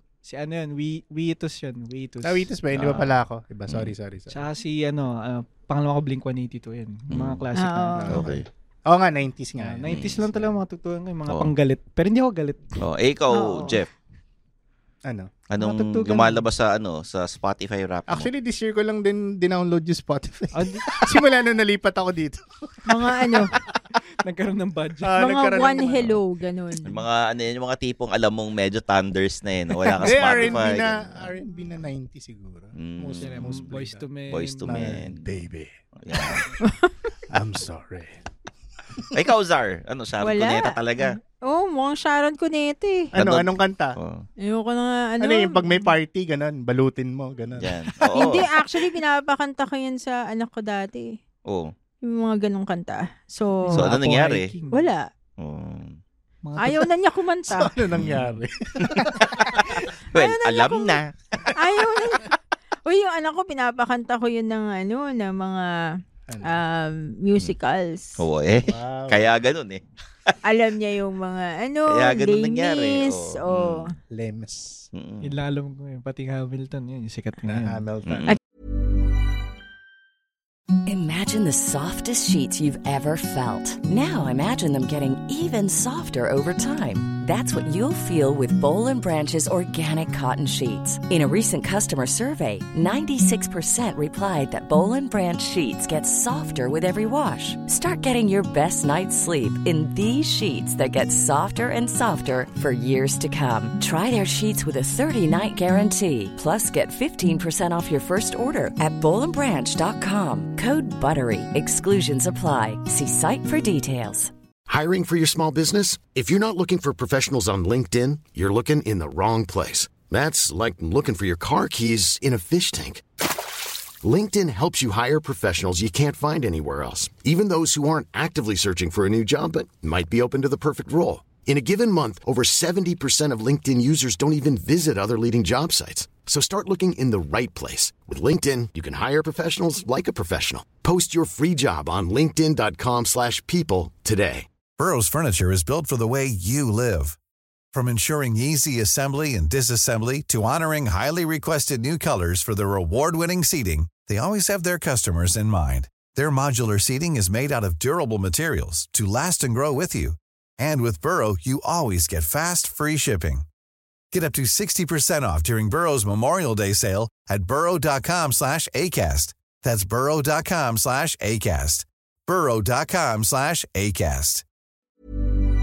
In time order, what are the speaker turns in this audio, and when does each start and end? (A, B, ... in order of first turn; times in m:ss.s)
0:00.2-0:03.1 A
0:02.2-0:04.4 B
0:02.8-0:03.1 C
0:04.3-0:08.2 A
0:07.1-0:07.4 C
0:07.5-0:08.2 D
0:08.0-0:10.6 B
0:08.1-0:08.4 C
0:09.6-0:12.7 A
0:09.8-0:10.3 C
0:12.8-0:13.9 C
0:13.3-0:13.8 D
0:15.0-0:15.3 B
0:15.5-0:18.3 C
0:15.6-0:16.4 A
0:18.1-0:22.7 B
0:20.5-0:20.8 A
0:22.8-0:23.5 D
0:24.2-0:25.2 A
0:25.0-0:26.1 B
0:25.2-0:27.0 D
0:26.8-0:31.0 C
0:30.0-0:34.0 B
0:32.8-0:33.5 C
0:33.2-0:34.8 A
0:34.3-0:35.2 C
0:34.7-0:35.7 B
0:36.0-0:36.4 C
0:36.6-0:36.9 D
0:37.3-0:38.2 B
0:39.1-0:41.2 C
0:40.2-0:43.1 D
0:43.1-0:44.0 B
0:43.2-0:44.2 C
0:44.4-0:45.9 D
0:45.2-0:47.9 B
0:47.6-0:48.5 C
0:48.1-0:51.2 D
0:51.5-0:51.7 C
0:52.0-0:53.9 D
0:53.7-0:54.8 A
0:53.7-0:54.5 C
0:54.7-0:55.0 D
0:55.4-0:56.0 C
0:56.4-0:56.8 A
0:56.6-0:57.7 D
0:57.5-0:59.6 B
0:58.0-1:01.0 C
1:00.1-1:01.0 D
1:01.6-1:02.3 D
1:02.8-1:05.8 D
1:06.4-1:08.2 D
1:08.2-1:10.3 C
1:08.7-1:09.3 B
1:10.4-1:13.9 D
1:11.9-1:13.9 C
1:14.1-1:14.8 B
1:14.9-1:15.3 C
1:15.2-1:17.8 A
1:17.4-1:18.3 B
1:20.8-1:54.3 E
1:54.7-2:03.0 F
2:04.0-2:24.5 F
2:24.8-2:27.2 G
2:27.7-2:43.4 G
2:44.1-2:54.4 G